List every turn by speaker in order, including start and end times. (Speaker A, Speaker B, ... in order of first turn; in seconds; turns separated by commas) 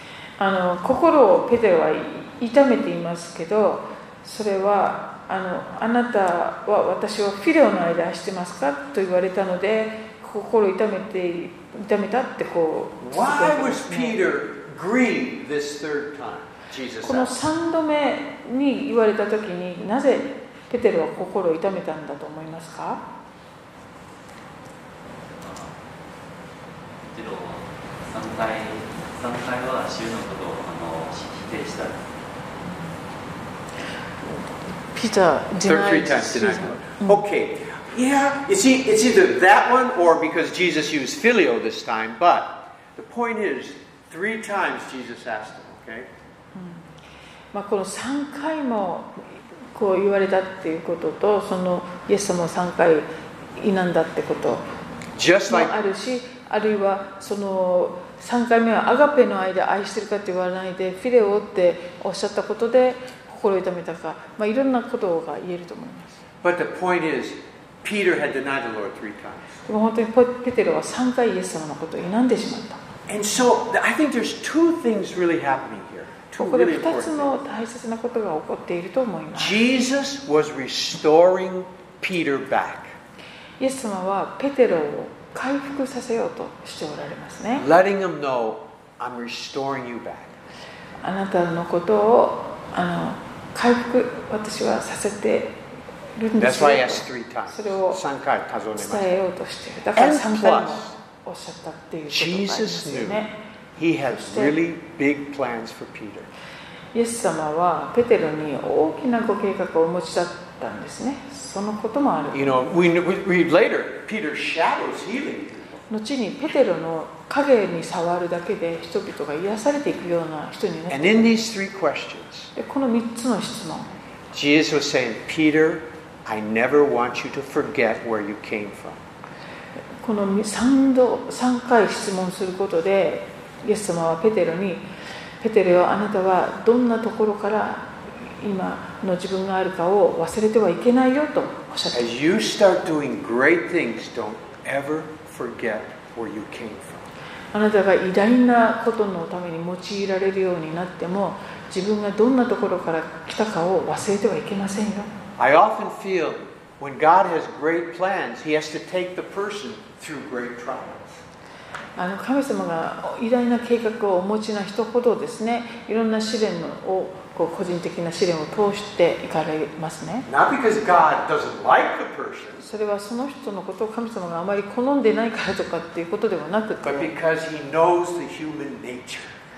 Speaker A: 0.4-14.2, Speaker B: 13.0-17.4, Speaker A: 17.0-23.0, Speaker C: 25.4-25.7, Speaker C: 27.0-32.0, Speaker A: 34.9-37.2, Speaker B: 35.6-46.1, Speaker A: 46.5-46.9, Speaker A: 47.5-54.6, Speaker B: 55.1-55.8, Speaker A: 55.5-66.2, Speaker B: 66.4-69.6, Speaker A: 69.7-72.8, Speaker B: 73.1-77.3, Speaker A: 76.4-79.6, Speaker B: 79.3-83.0, Speaker A: 83.6-87.7, Speaker B: 87.6-90.3, Speaker A: 91.0-95.6, Speaker A: 96.2-98.0, Speaker B: 96.4-99.1, Speaker A: 98.8-103.3, Speaker B: 100.0-100.9, Speaker B: 102.1-103.2, Speaker B: 103.8-106.3, Speaker A: 104.1-104.6, Speaker A: 106.9-112.5, Speaker B: 112.3-115.8, Speaker A: 115.9-121.3, Speaker B: 120.9-122.5, Speaker A: 122.5-123.9, Speaker B: 124.3-129.0, Speaker A: 130.0-134.9, Speaker A: 135.4-142.1, Speaker B: 141.9-147.1, Speaker A: 147.5-155.1, Speaker B: 155.4-161.2, Speaker A: 162.0-170.3, Speaker B: 170.3-172.7, Speaker A: 172.6-177.1, Speaker B: 176.8-179.3